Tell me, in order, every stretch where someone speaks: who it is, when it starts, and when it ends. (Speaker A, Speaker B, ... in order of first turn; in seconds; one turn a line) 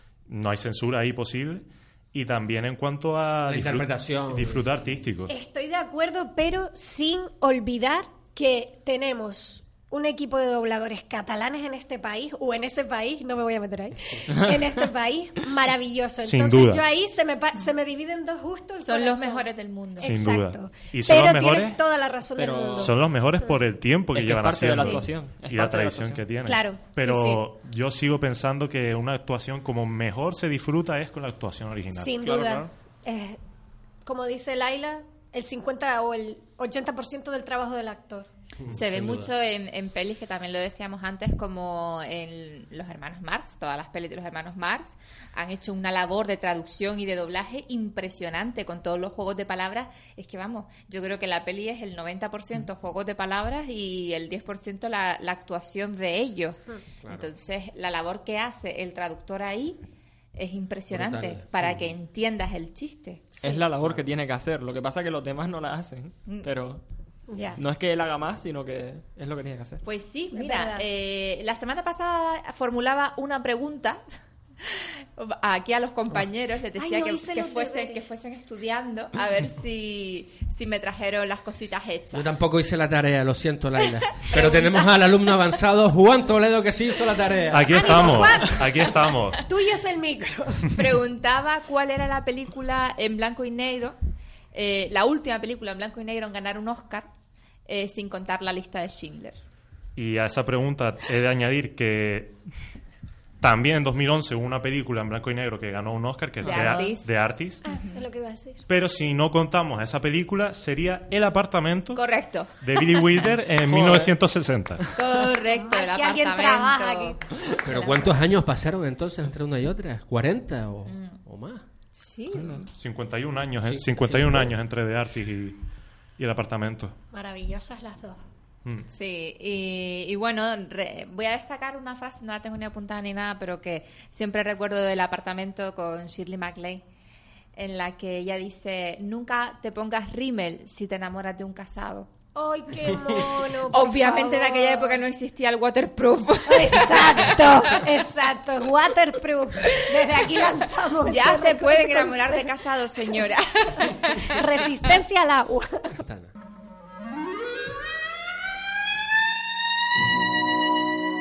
Speaker A: 0.3-5.3
Speaker B: 3.5-4.7
Speaker C: 5.3-19.4
Speaker A: 16.2-16.8
Speaker D: 18.9-20.1
Speaker C: 20.0-23.5
Speaker A: 20.0-21.8
Speaker E: 22.4-23.0
Speaker A: 22.8-32.7
Speaker E: 24.1-26.2
Speaker C: 24.8-25.1
Speaker C: 26.4-27.4
Speaker C: 31.9-33.4
Speaker C: 34.0-38.3
Speaker B: 38.6-39.3
Speaker D: 38.7-59.8
Speaker B: 57.0-57.3
Speaker D: 60.4-63.4
Speaker B: 60.9-61.9
Speaker E: 63.4-66.8
Speaker B: 63.8-64.0
Speaker C: 67.3-67.6
Speaker E: 67.6-69.8
Speaker D: 69.8-74.0
Speaker C: 70.3-70.8
Speaker D: 74.6-82.2
Speaker C: 76.8-78.0
Speaker B: 82.1-88.3
Speaker C: 84.3-84.7
Speaker A: 87.5-89.4
Speaker C: 87.7-90.7
Speaker D: 90.7-94.0
Speaker D: 94.5-97.1
Speaker D: 97.7-99.4
Speaker A: 100.0-102.4
Speaker A: 103.4-107.6
Speaker D: 106.4-107.1
Speaker C: 106.5-106.9
Speaker D: 107.7-108.0
Speaker C: 107.7-108.6
Speaker A: 108.7-112.0
Speaker D: 112.0-113.1
Speaker A: 112.6-114.8
Speaker B: 113.7-114.1
Speaker D: 115.0-118.1
Speaker C: 115.5-117.2
Speaker B: 117.7-121.6
Speaker D: 120.9-121.2
Speaker D: 122.0-122.7
Speaker A: 122.8-125.6
Speaker B: 123.6-124.5
Speaker A: 126.2-127.0
Speaker C: 127.1-128.2
Speaker D: 128.9-136.8
Speaker D: 137.6-142.1
Speaker C: 142.3-145.0
Speaker D: 143.7-147.8
Speaker C: 146.5-152.5
Speaker D: 149.8-150.4
Speaker D: 151.0-154.6
Speaker C: 154.3-155.9
Speaker B: 155.9-156.3